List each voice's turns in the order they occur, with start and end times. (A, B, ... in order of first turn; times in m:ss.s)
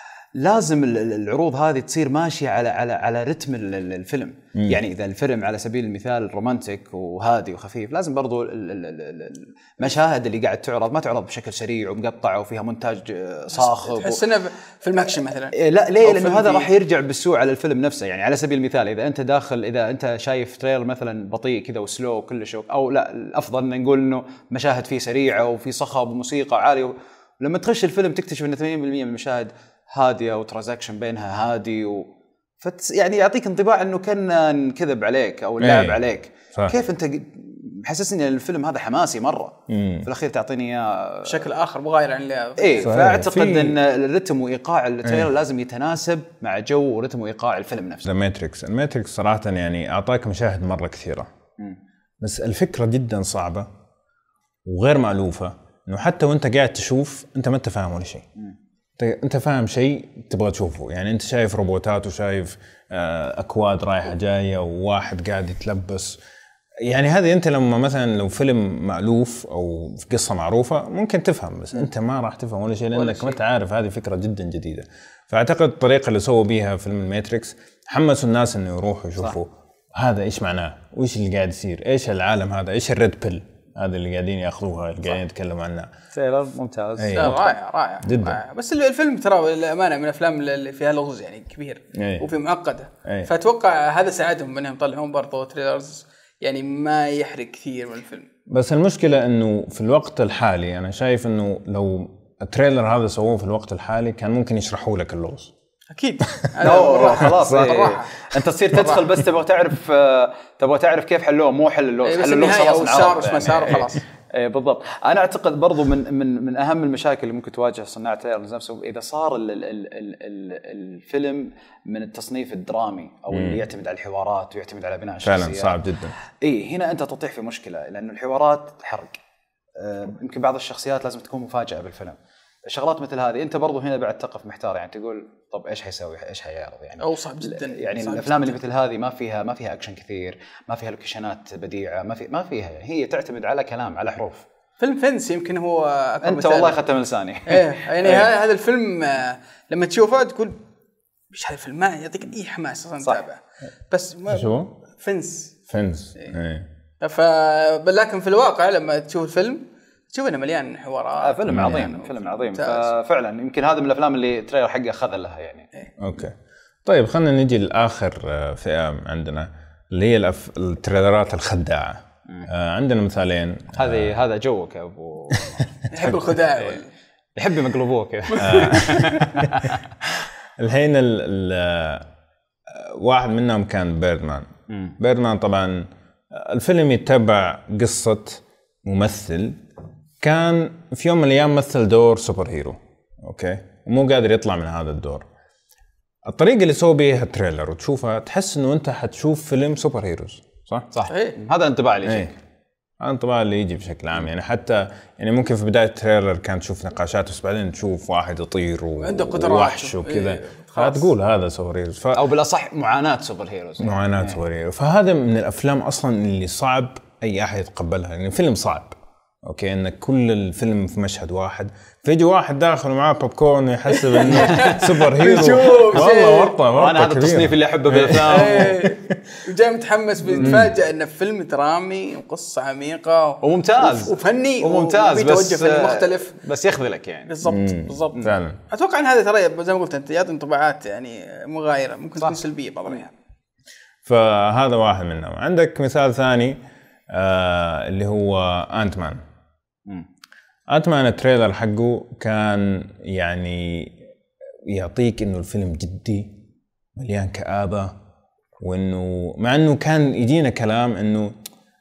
0:00.4-0:14.2 A
0:13.6-0:16.7 B
0:15.5-0:32.1 A
0:32.6-0:41.5 A
0:35.6-0:36.0 C
0:39.7-0:40.1 C
0:41.3-0:43.0 B
0:42.6-0:48.1 A
0:42.8-0:43.8 C
0:48.0-0:51.3 C
0:52.2-0:53.7 C
0:54.6-0:58.3 C
0:59.0-1:06.2 C
1:06.8-1:25.9 C
1:12.9-1:13.4 B
1:26.1-1:27.4 A
1:27.0-1:28.4 C
1:27.1-1:38.3 B
1:32.0-1:32.3 C
1:33.0-1:33.3 C
1:38.5-1:45.5 C
1:45.9-1:48.3 B
1:46.6-2:05.8 A
1:47.2-1:47.6 C
1:52.0-1:54.0 B
2:03.3-2:03.6 C
2:05.2-2:06.2 C
2:06.4-2:09.2 A
2:09.8-2:24.5 A
2:17.0-2:18.6 B
2:24.8-2:26.8 B
2:26.2-2:28.3 A
2:27.5-2:30.6 B
2:31.3-2:35.6 B
2:34.3-2:34.7 C
2:35.7-2:36.7 C
2:37.0-2:42.9 B
2:41.2-2:45.7 A
2:41.5-2:41.8 C
2:46.0-2:54.1 C
2:53.7-2:55.6 A
2:55.9-2:56.9 B
2:57.4-2:59.8 A
2:58.4-2:59.0 B
2:58.4-2:59.5 C
3:00.6-3:02.1 C
3:02.7-3:04.5 C
3:04.7-3:05.0 A
3:05.0-3:09.6 C
3:10.2-3:15.3 C
3:16.3-3:20.9 C
3:20.9-3:22.4 A
3:21.1-3:21.4 B
3:22.0-3:22.3 C
3:23.0-3:32.2 C
3:29.0-3:31.1 B
3:32.1-3:34.4 A
3:33.8-3:49.2 C
3:43.9-3:46.6 B
3:45.9-3:48.8 A
3:48.3-3:56.3 B
3:50.4-3:50.7 A
3:50.4-3:50.7 C
3:53.4-3:57.4 A
3:57.3-4:03.1 B
3:57.5-3:58.6 C
4:02.2-4:02.4 A
4:04.0-4:06.6 C
4:07.1-4:09.2 C
4:10.7-4:14.0 C
4:14.7-4:16.4 C
4:17.0-4:17.9 C
4:18.6-4:21.3 C